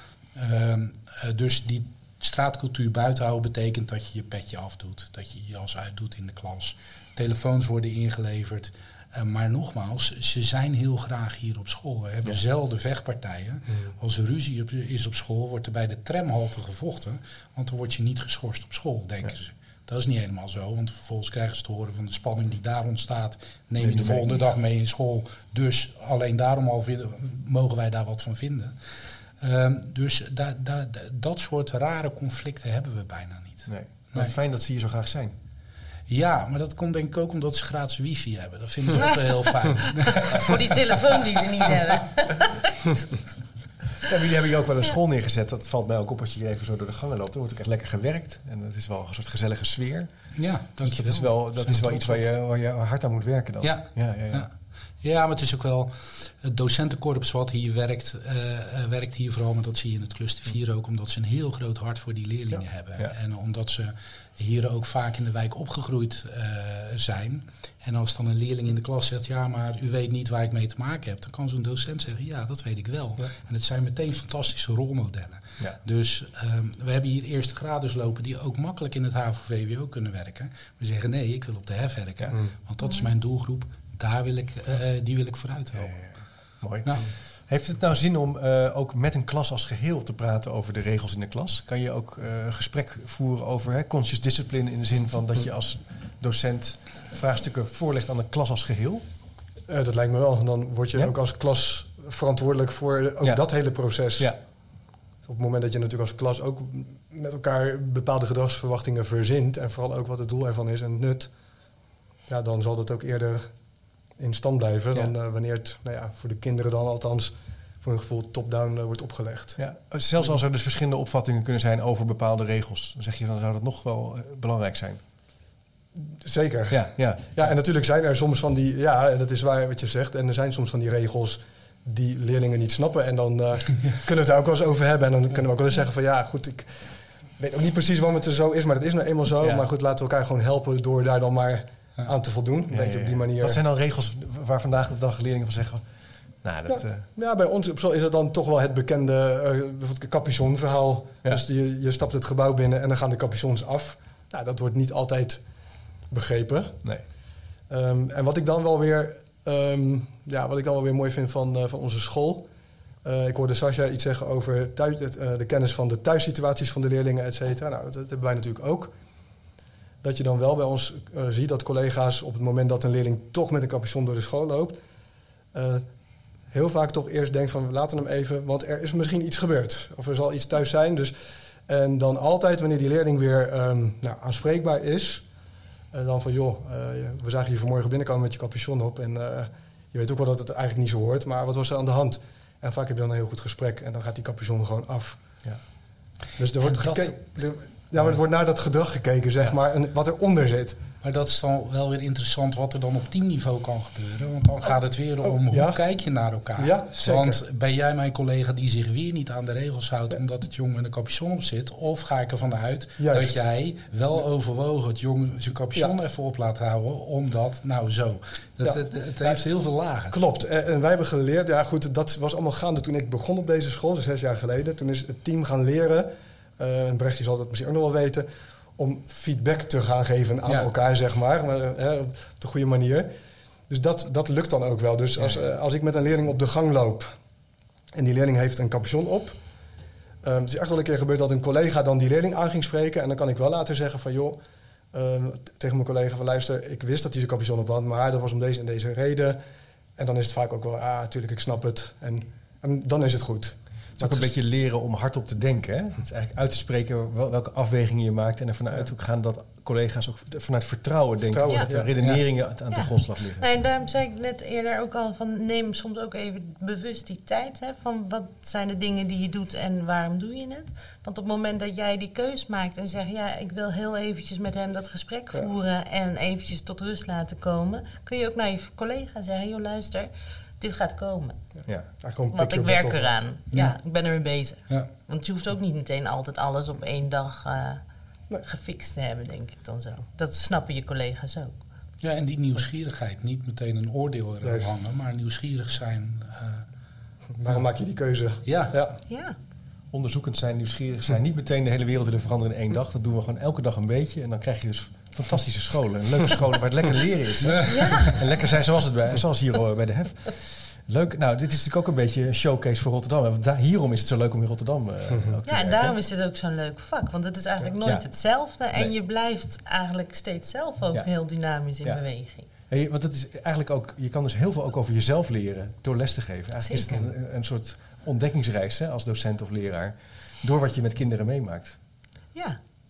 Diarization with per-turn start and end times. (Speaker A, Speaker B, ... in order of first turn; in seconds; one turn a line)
Speaker A: 0.3-28.8
Speaker B: 23.8-24.4
Speaker A: 29.4-34.3
Speaker B: 33.7-35.4
Speaker A: 36.1-40.9
Speaker C: 39.8-42.8
Speaker B: 44.0-50.3
Speaker A: 50.4-52.2
Speaker B: 50.8-54.5
Speaker A: 53.6-86.1
Speaker B: 85.8-99.0
Speaker D: 99.7-104.3
Speaker D: 105.2-111.3
Speaker D: 112.3-113.5
Speaker D: 114.2-119.6
Speaker B: 119.6-125.0
Speaker D: 126.1-143.6
Speaker B: 126.7-127.5
Speaker B: 139.4-139.7
Speaker B: 142.7-145.8
Speaker B: 146.4-147.1
Speaker D: 146.7-155.4
Speaker D: 156.1-156.8
Speaker D: 157.7-162.5
Speaker D: 163.0-168.9
Speaker D: 170.0-174.8
Speaker D: 175.5-175.8
Speaker D: 176.5-181.1
Speaker D: 181.7-185.3
Speaker D: 185.9-195.2
Speaker D: 196.4-200.8
Speaker A: 196.6-197.1
Speaker A: 201.0-220.2
Speaker D: 205.2-205.8
Speaker D: 206.6-207.4
Speaker D: 213.0-213.4
Speaker D: 218.6-219.4
Speaker D: 220.1-228.3
Speaker D: 228.8-233.1
Speaker D: 233.7-237.1
Speaker D: 237.9-239.4
Speaker D: 240.2-244.4
Speaker D: 244.9-249.4
Speaker D: 250.0-254.3
Speaker B: 254.0-263.4
Speaker D: 261.3-261.9
Speaker C: 262.7-281.4
Speaker D: 282.0-283.2
Speaker C: 282.3-287.8
Speaker C: 288.4-291.6
Speaker A: 292.0-296.7
Speaker D: 294.4-294.7
Speaker D: 297.4-299.0
Speaker A: 298.4-298.8
Speaker C: 299.1-299.4
Speaker B: 299.9-316.0
Speaker A: 307.7-308.1
Speaker C: 307.7-308.2
Speaker C: 315.5-322.5
Speaker B: 322.7-331.8
Speaker C: 326.6-327.0